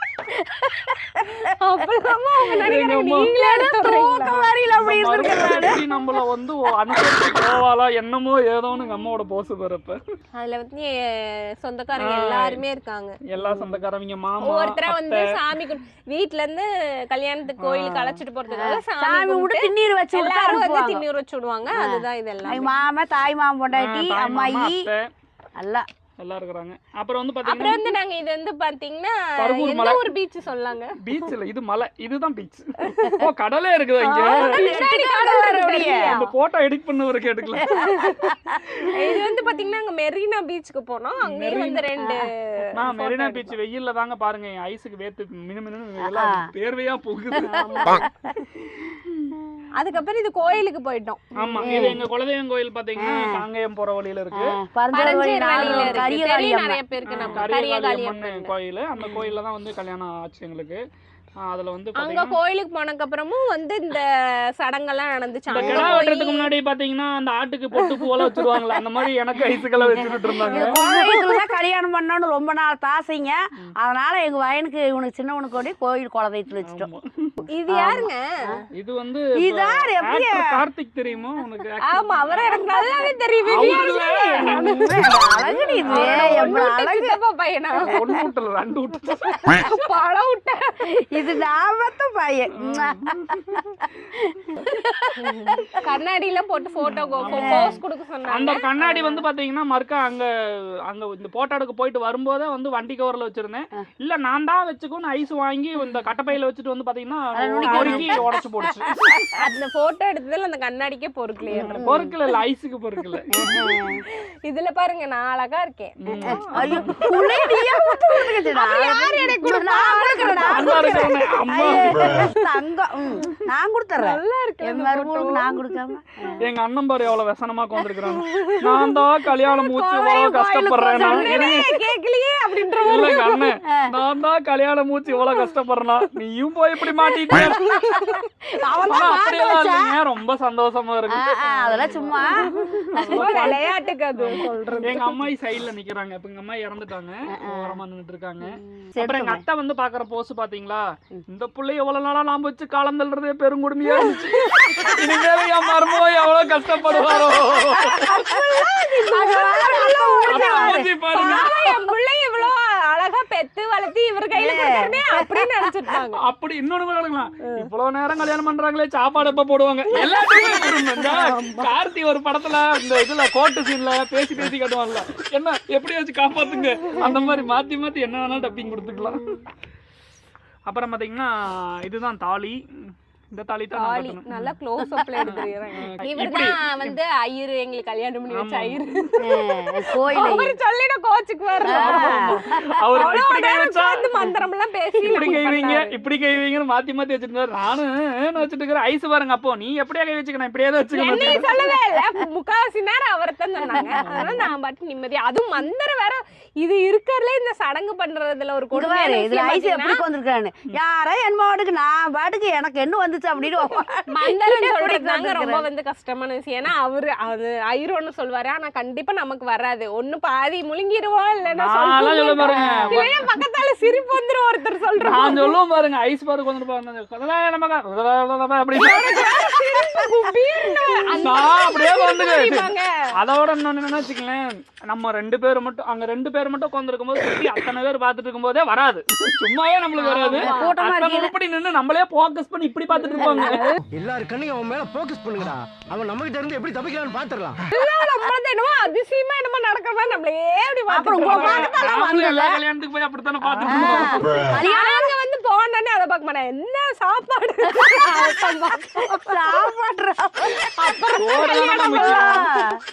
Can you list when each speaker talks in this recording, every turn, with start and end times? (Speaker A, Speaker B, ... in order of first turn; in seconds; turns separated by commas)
Speaker A: 0.3-1.5, Speaker B: 1.5-4.4, Speaker C: 2.6-3.4, Speaker A: 3.4-5.8, Speaker C: 4.7-10.0, Speaker A: 6.9-7.4, Speaker B: 10.3-13.2, Speaker C: 12.0-12.6, Speaker C: 13.3-15.3, Speaker A: 13.4-13.8, Speaker B: 14.4-22.7, Speaker C: 17.6-18.2, Speaker A: 18.5-21.0, Speaker A: 21.7-24.9, Speaker C: 23.7-25.1, Speaker A: 25.6-25.9, Speaker C: 26.2-27.8, Speaker B: 27.4-31.0, Speaker C: 29.4-30.1, Speaker C: 31.0-34.6, Speaker B: 32.8-33.2, Speaker B: 34.0-36.2, Speaker A: 34.1-36.2, Speaker C: 36.0-37.7, Speaker A: 37.6-38.6, Speaker B: 37.7-38.4, Speaker B: 38.9-43.5, Speaker C: 41.2-41.9, Speaker A: 42.0-42.2, Speaker C: 42.8-48.0, Speaker A: 46.0-46.5, Speaker A: 47.4-48.3, Speaker B: 47.5-48.4, Speaker C: 48.7-49.3, Speaker B: 49.7-51.9, Speaker C: 51.4-54.6, Speaker A: 51.6-52.0, Speaker A: 53.0-53.4, Speaker A: 54.3-57.5, Speaker B: 54.9-58.5, Speaker C: 55.1-56.1, Speaker C: 57.1-60.8, Speaker A: 59.0-59.3, Speaker C: 61.4-62.4, Speaker B: 62.0-66.5, Speaker C: 65.5-70.8, Speaker A: 65.5-66.0, Speaker B: 68.3-68.8, Speaker A: 69.8-76.9, Speaker B: 70.3-71.5, Speaker C: 76.6-77.5, Speaker B: 77.5-78.2, Speaker A: 77.7-78.6, Speaker C: 78.8-82.6, Speaker A: 79.3-80.6, Speaker B: 81.8-85.0, Speaker C: 83.5-86.5, Speaker A: 83.6-87.2, Speaker B: 85.8-88.0, Speaker C: 87.8-89.7, Speaker B: 89.5-91.3, Speaker A: 91.1-93.1, Speaker C: 92.6-93.8, Speaker A: 94.2-95.8, Speaker B: 95.2-99.2, Speaker C: 96.8-97.8, Speaker A: 97.2-97.7, Speaker C: 98.3-100.3, Speaker C: 100.9-109.3, Speaker A: 107.3-108.2, Speaker B: 107.6-108.2, Speaker B: 109.3-112.3, Speaker A: 111.5-112.1, Speaker C: 111.6-113.3, Speaker A: 113.3-114.0, Speaker B: 114.5-122.5, Speaker C: 116.0-117.0, Speaker A: 116.1-126.4, Speaker C: 120.4-122.2, Speaker B: 124.0-125.6, Speaker C: 126.4-131.8, Speaker B: 128.0-133.4, Speaker A: 130.7-131.7, Speaker C: 132.8-137.6, Speaker B: 137.3-138.2, Speaker A: 137.3-140.0, Speaker C: 138.9-143.6, Speaker A: 141.1-142.4, Speaker B: 141.4-145.2, Speaker A: 142.9-143.5, Speaker C: 144.2-158.3, Speaker A: 144.3-145.0, Speaker A: 147.3-147.8, Speaker A: 148.8-149.4, Speaker B: 154.0-155.0, Speaker A: 154.0-155.1, Speaker B: 156.9-166.2, Speaker A: 157.7-161.6, Speaker C: 160.3-161.7, Speaker A: 164.3-165.7, Speaker C: 166.2-179.4, Speaker B: 169.9-171.7, Speaker C: 180.7-184.5, Speaker B: 183.7-195.9, Speaker A: 185.0-185.4, Speaker C: 185.2-187.0, Speaker C: 188.3-189.0, Speaker A: 189.2-190.5, Speaker A: 191.6-192.6, Speaker C: 191.7-194.1, Speaker C: 195.0-201.7, Speaker A: 195.1-195.8, Speaker B: 200.9-210.0, Speaker A: 201.2-202.0, Speaker A: 203.7-204.5, Speaker C: 204.0-204.5, Speaker A: 208.7-215.7, Speaker B: 214.1-225.5, Speaker C: 221.5-223.1, Speaker A: 222.5-223.1, Speaker C: 225.0-229.3, Speaker B: 228.7-232.9, Speaker A: 228.9-230.1, Speaker C: 231.2-243.6, Speaker B: 240.0-240.7, Speaker A: 240.0-241.3, Speaker B: 243.0-243.8, Speaker A: 243.2-243.6, Speaker D: 243.9-247.6, Speaker B: 247.7-252.1, Speaker A: 250.9-252.6, Speaker C: 251.1-254.4, Speaker A: 253.6-255.1, Speaker B: 254.0-259.7, Speaker A: 257.7-258.3, Speaker A: 259.0-262.8, Speaker B: 260.5-262.4, Speaker C: 261.2-262.5